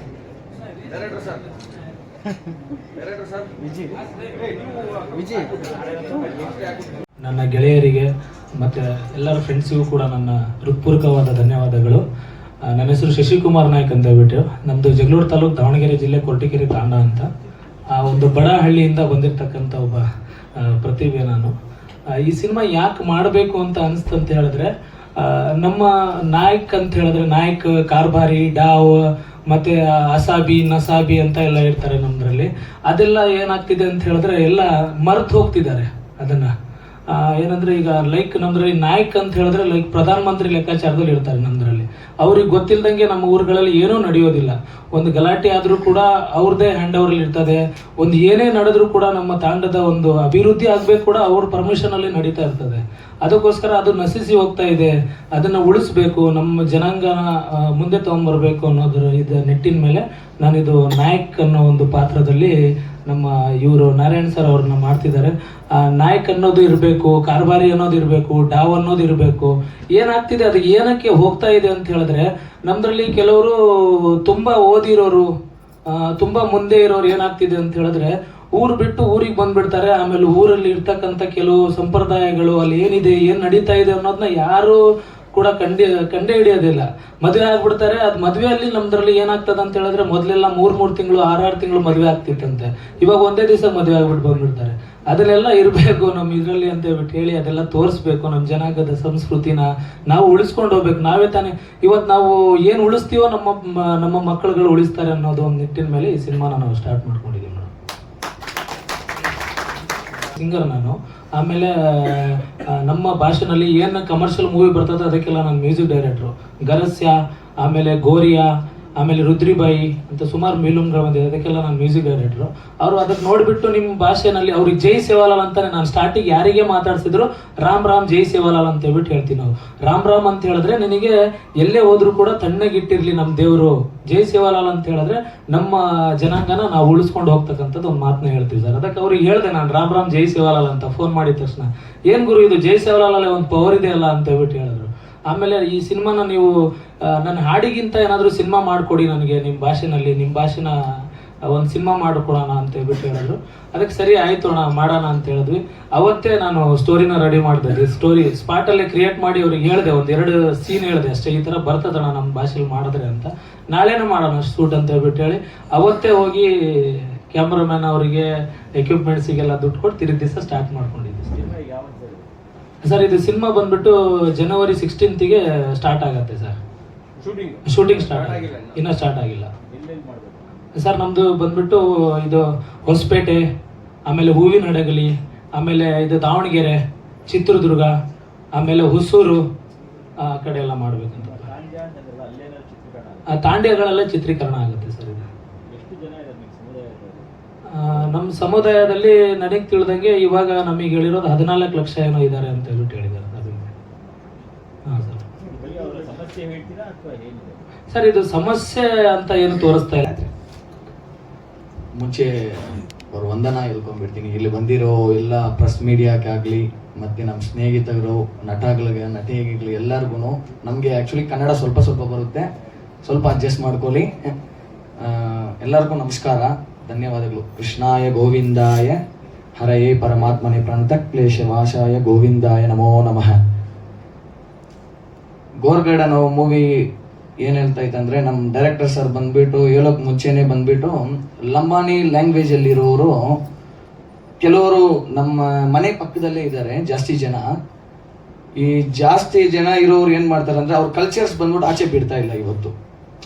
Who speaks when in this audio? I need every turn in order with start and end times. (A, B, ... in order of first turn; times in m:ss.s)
0:00.9-0:01.3 A
0:07.2-0:12.0 B
0:12.7-0:17.3 B
0:17.9-0:20.0 B
0:20.6-0:21.5 B
0:22.2-0:36.5 B
0:37.1-0:57.2 B
0:57.7-1:02.5 B
1:03.1-1:15.3 B
1:16.2-1:24.8 B
1:25.4-1:47.7 B
1:50.3-2:26.5 B
2:27.1-2:30.7 B
2:31.5-2:48.3 B
2:48.8-2:51.5 B
2:51.3-2:52.3 C
2:52.8-2:56.6 B
2:57.2-2:58.6 C
2:57.6-2:59.5 B
2:59.7-3:00.6 C
3:00.8-3:03.4 B
3:04.1-3:07.9 B
3:08.6-3:09.4 B
3:10.2-3:11.5 B
3:11.2-3:13.3 C
3:13.3-3:15.3 B
3:15.7-3:17.3 C
3:17.7-3:23.7 B
3:24.9-3:25.2 B
3:25.4-3:27.6 C
3:27.9-3:30.3 B
3:32.0-3:42.5 A
3:43.0-3:44.3 A
3:45.0-3:49.0 A
3:49.6-3:53.4 A
3:55.6-3:56.7 A
3:57.4-4:03.2 A
4:04.4-4:07.5 A
4:08.6-4:12.7 A